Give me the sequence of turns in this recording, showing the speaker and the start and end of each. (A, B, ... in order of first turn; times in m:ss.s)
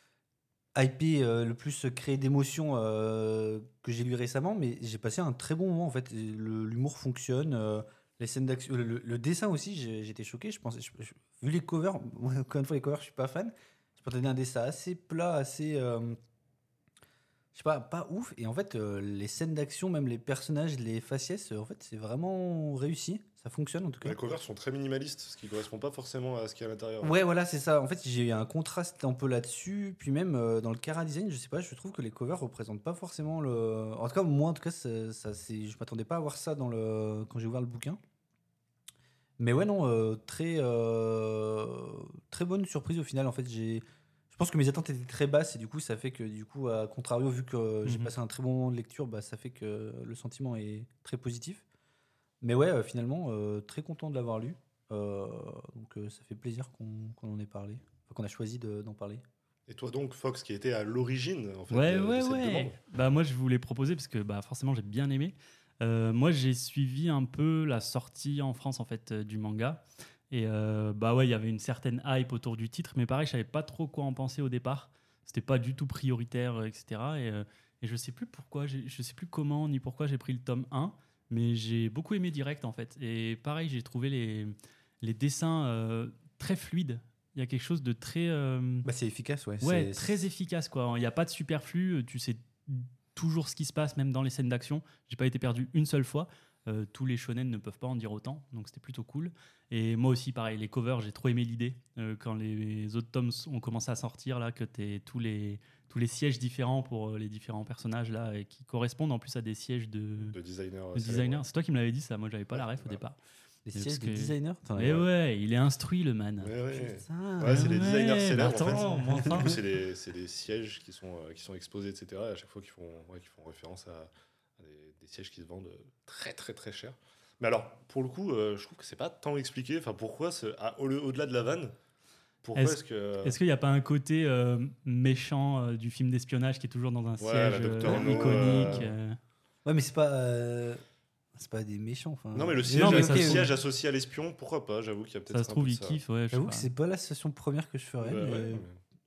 0:00.8-0:16.2 A
0:17.5-0:24.2 A
0:24.0-0:27.2 B
0:27.0-0:38.0 A
0:39.4-0:51.6 A
0:47.8-0:48.1 C
0:52.4-0:59.2 A
0:59.7-1:02.8 B
1:01.7-1:28.9 C
1:28.8-1:30.2 A
1:29.6-1:50.4 C
1:50.2-1:51.4 B
1:50.9-1:53.2 C
1:52.5-1:53.0 B
1:53.6-1:55.1 A
1:53.7-1:56.5 C
1:56.4-2:11.7 B
1:56.7-1:57.8 A
1:57.4-1:59.6 C
1:59.0-1:59.6 A
2:12.4-2:13.4 B
2:12.6-2:19.2 C
2:17.2-2:18.9 B
2:17.8-2:18.9 A
2:19.6-2:20.8 A
2:21.3-2:23.5 A
2:22.3-2:26.0 B
2:22.7-2:23.5 C
2:25.3-2:26.7 C
2:26.3-2:28.6 A
2:28.0-2:28.8 B